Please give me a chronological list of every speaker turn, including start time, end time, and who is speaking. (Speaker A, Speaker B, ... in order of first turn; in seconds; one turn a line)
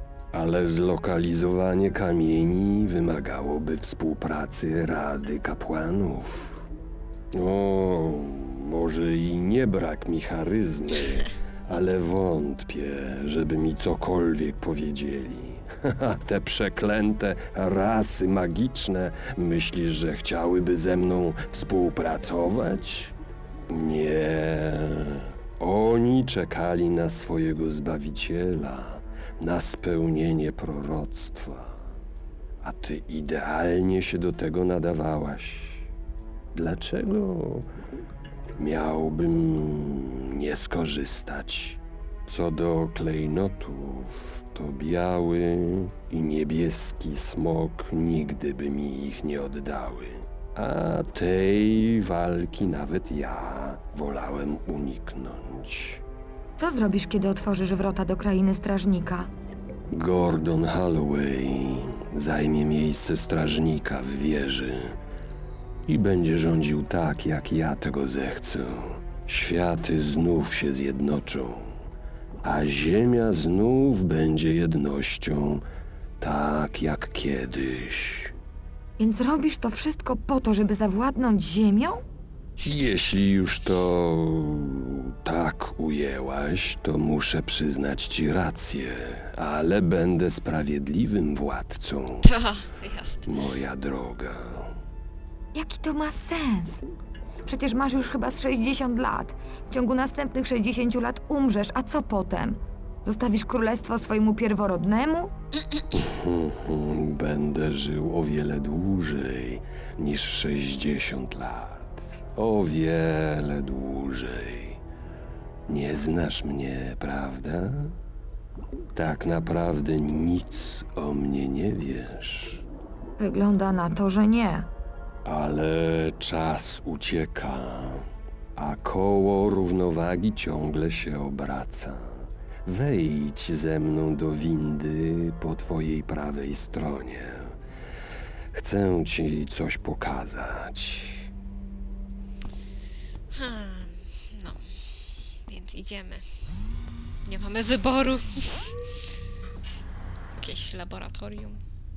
Speaker A: 0.3-6.6
Speaker A: 7.3-23.1
Speaker A: 23.7-31.9
Speaker A: 32.6-35.9
Speaker A: 36.5-37.7
Speaker A: 38.6-56.0
Speaker B: 56.6-59.3
Speaker A: 59.9-65.0
Speaker A: 65.8-71.8
Speaker A: 72.4-75.6
Speaker A: 76.2-78.3
Speaker B: 79.0-82.0
Speaker A: 82.6-92.3
Speaker C: 92.2-93.3
Speaker A: 93.2-94.7
Speaker B: 95.5-96.8
Speaker B: 97.4-105.3
Speaker A: 105.9-114.8
Speaker A: 115.7-118.0
Speaker A: 118.9-122.6
Speaker B: 123.2-124.7
Speaker A: 125.2-137.6
Speaker A: 138.5-141.3
Speaker C: 143.3-146.2
Speaker C: 147.2-148.8
Speaker C: 150.3-151.6